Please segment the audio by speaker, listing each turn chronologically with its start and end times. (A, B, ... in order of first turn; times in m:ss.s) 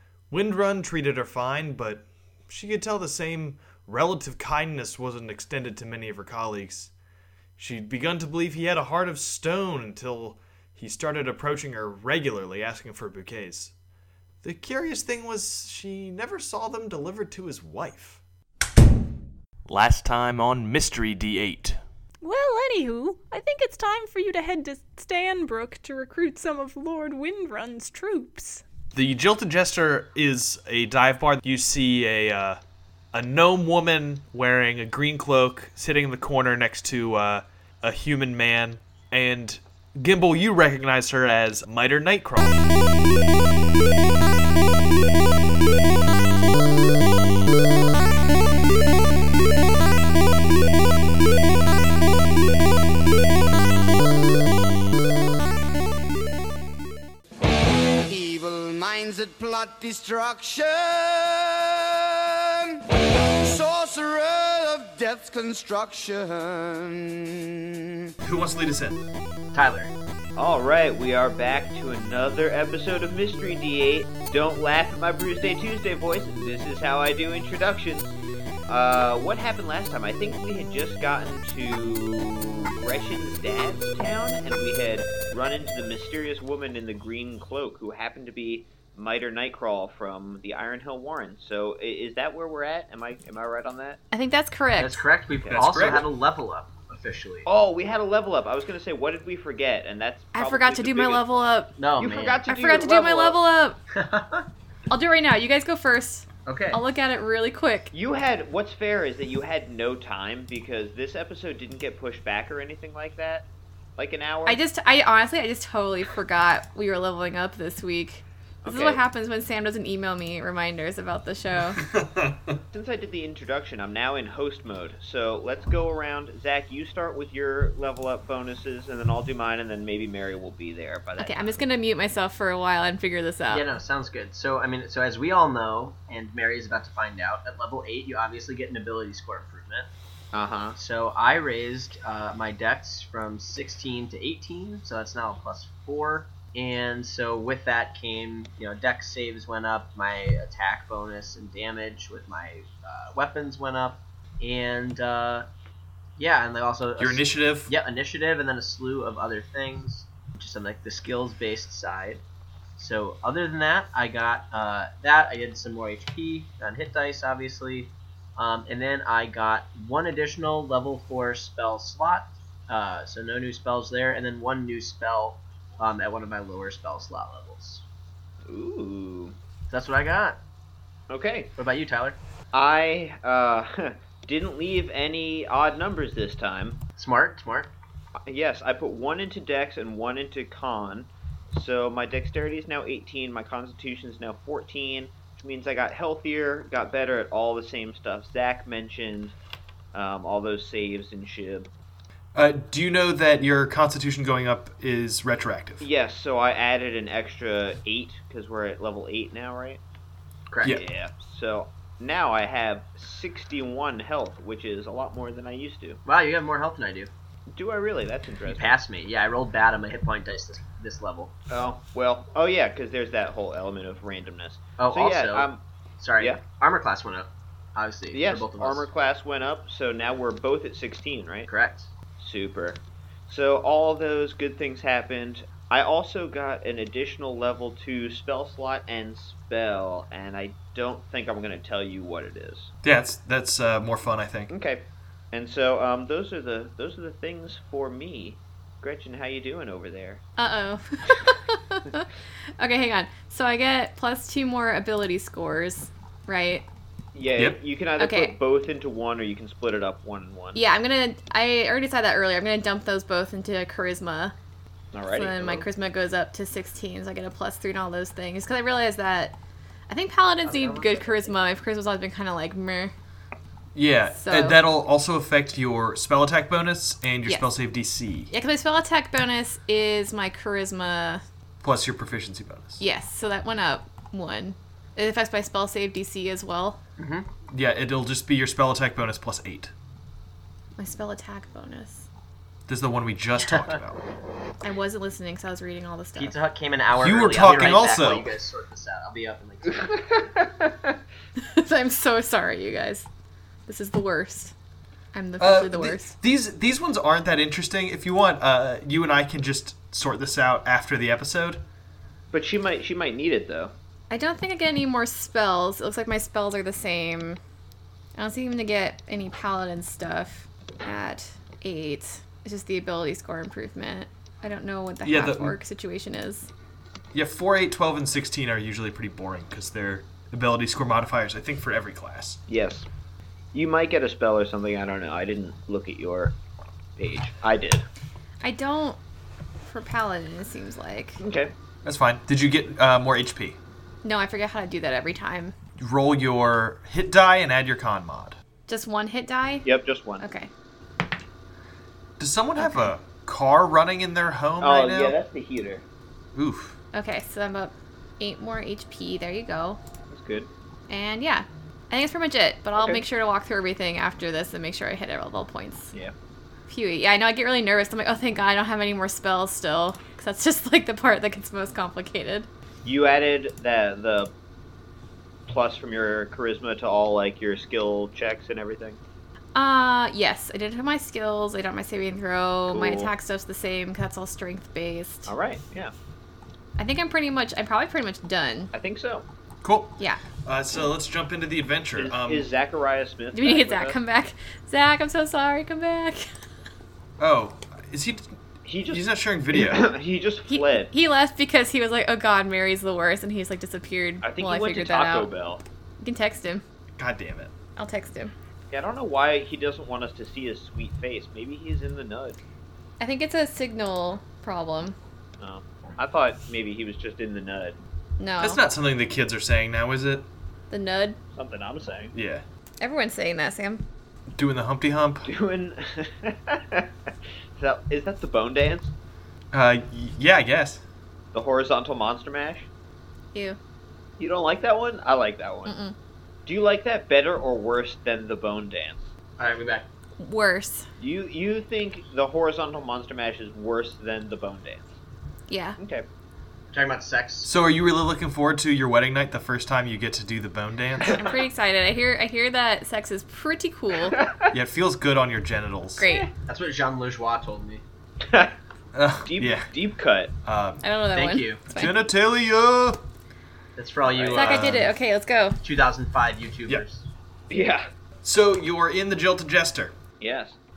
0:00.3-0:06.9 A
0:07.6-0:13.7 A
0:14.4-0:18.2 A
0:19.7-0:21.8 A
0:22.2-0:28.6 B
0:28.9-0:32.6 A
0:33.1-0:42.6 A
0:58.1-1:08.1 C
1:08.2-1:09.0 A
1:09.5-1:09.9 D
1:10.4-1:18.1 E
1:18.7-1:34.0 E
1:34.1-1:35.0 F
1:34.8-1:37.5 D
1:35.5-1:36.1 A
1:37.4-1:41.4 E
1:40.3-1:41.8 F
1:41.8-1:42.4 D
1:42.0-1:43.4 E
1:42.5-1:43.8 F
1:43.9-1:44.5 D
1:44.9-1:47.9 F
1:46.5-1:46.8 D
1:47.9-1:54.6 E
1:54.4-2:01.8 F
1:58.6-1:59.0 E
2:01.8-2:02.6 A
2:02.7-2:11.6 E
2:11.2-2:13.6 F
2:13.5-2:19.9 D
2:20.3-2:20.8 E
2:20.8-2:35.5 D
2:36.2-2:42.2 D
2:37.0-2:37.7 A
2:42.8-2:57.8 D
2:58.5-2:59.4 E
2:59.7-3:00.4 D
3:01.1-3:01.5 E
3:01.6-3:02.2 D
3:02.5-3:06.8 E
3:07.0-3:07.7 D
3:08.3-3:19.4 E
3:19.9-3:21.7 E
3:22.4-3:25.8 A
3:25.8-3:29.8 E
3:30.5-3:30.8 D
3:30.7-3:36.0 E
3:36.0-3:37.1 D
3:37.5-3:38.8 E
3:38.5-3:41.3 D
3:41.5-3:45.6 E
3:44.8-3:45.5 D
3:46.0-3:48.9 D
3:48.1-3:51.5 E
3:51.5-3:51.9 D
3:52.2-4:02.7 E
4:02.8-4:04.5 A
4:04.5-4:10.2 E
4:10.4-4:12.1 F
4:12.6-4:16.7 F
4:17.1-4:20.6 E
4:18.0-4:18.4 F
4:20.6-4:24.4 F
4:24.9-4:25.7 E
4:25.1-4:29.4 F
4:29.9-4:32.9 F
4:30.4-4:31.4 D
4:33.8-4:38.3 A
4:34.2-4:34.6 F
4:37.2-4:37.5 F
4:38.3-4:41.2 F
4:41.6-4:42.8 A
4:42.8-4:46.8 F
4:47.0-4:47.3 D
4:47.5-4:49.7 A
4:50.8-4:52.1 F
4:52.7-4:54.0 A
4:53.5-4:53.8 D
4:54.6-4:56.4 F
4:56.2-5:00.2 D
4:56.9-4:58.4 A
4:59.8-5:01.0 E
5:01.4-5:03.1 F
5:03.7-5:04.5 F
5:05.1-5:06.2 F
5:05.4-5:11.6 A
5:12.3-5:13.7 E
5:14.1-5:17.4 F
5:18.2-5:26.5 F
5:25.0-5:25.6 A
5:27.1-5:32.4 A
5:32.5-5:32.9 E
5:33.5-5:36.4 E
5:37.0-5:37.8 E
5:38.4-5:39.0 F
5:39.6-5:41.2 F
5:41.2-5:41.5 E
5:41.8-5:43.6 A
5:44.0-5:45.5 F
5:45.8-5:48.4 A
5:48.7-5:49.7 F
5:49.6-5:50.2 E
5:50.2-5:50.5 F
5:52.2-5:55.2 A
5:52.6-5:52.9 F
5:54.6-5:55.8 E
5:56.4-5:56.8 A
5:56.9-5:59.8 F
6:00.1-6:00.5 E
6:00.9-6:05.9 F
6:02.8-6:03.0 E
6:06.7-6:12.5 F
6:12.8-6:14.3 E
6:15.5-6:19.0 E
6:19.6-6:25.3 F
6:22.7-6:23.1 E
6:25.3-6:25.9 E
6:26.8-6:28.7 F
6:28.7-6:29.3 E
6:29.6-6:32.5 A
6:32.0-6:34.0 E
6:33.3-6:36.2 F
6:37.2-6:38.4 A
6:38.6-6:40.9 E
6:38.9-6:39.9 A
6:40.5-6:45.3 F
6:44.2-6:45.6 E
6:46.0-6:46.6 F
6:47.0-6:47.5 A
6:47.8-6:48.3 F
6:48.7-6:52.4 E
6:53.0-6:55.0 F
6:55.4-6:57.8 E
6:58.2-6:58.6 F
6:58.4-7:00.3 A
7:00.7-7:01.2 F
7:01.4-7:02.1 E
7:02.1-7:02.4 A
7:02.8-7:03.9 F
7:04.3-7:05.3 A
7:05.3-7:08.9 E
7:09.5-7:10.8 A
7:11.3-7:12.7 E
7:14.2-7:15.8 E
7:15.7-7:16.0 F
7:16.5-7:19.1 E
7:19.4-7:19.9 D
7:20.2-7:20.9 F
7:21.0-7:24.9 E
7:25.5-7:25.8 F
7:25.8-7:26.1 E
7:26.7-7:27.5 D
7:27.4-7:31.2 A
7:31.2-7:34.2 F
7:34.2-7:34.5 E
7:34.5-7:36.1 A
7:36.0-7:36.3 F
7:36.5-7:37.8 D
7:38.2-7:38.5 E
7:38.9-7:39.7 A
7:39.2-7:40.3 E
7:40.4-7:40.8 A
7:40.8-7:42.0 F
7:41.1-7:41.6 D
7:41.7-7:43.0 A
7:43.8-7:44.9 D
7:44.1-7:44.6 E
7:44.3-7:45.6 F
7:44.4-7:44.9 A
7:45.6-7:47.1 D
7:47.5-7:47.8 E
7:48.2-7:49.9 A
7:50.2-7:50.6 E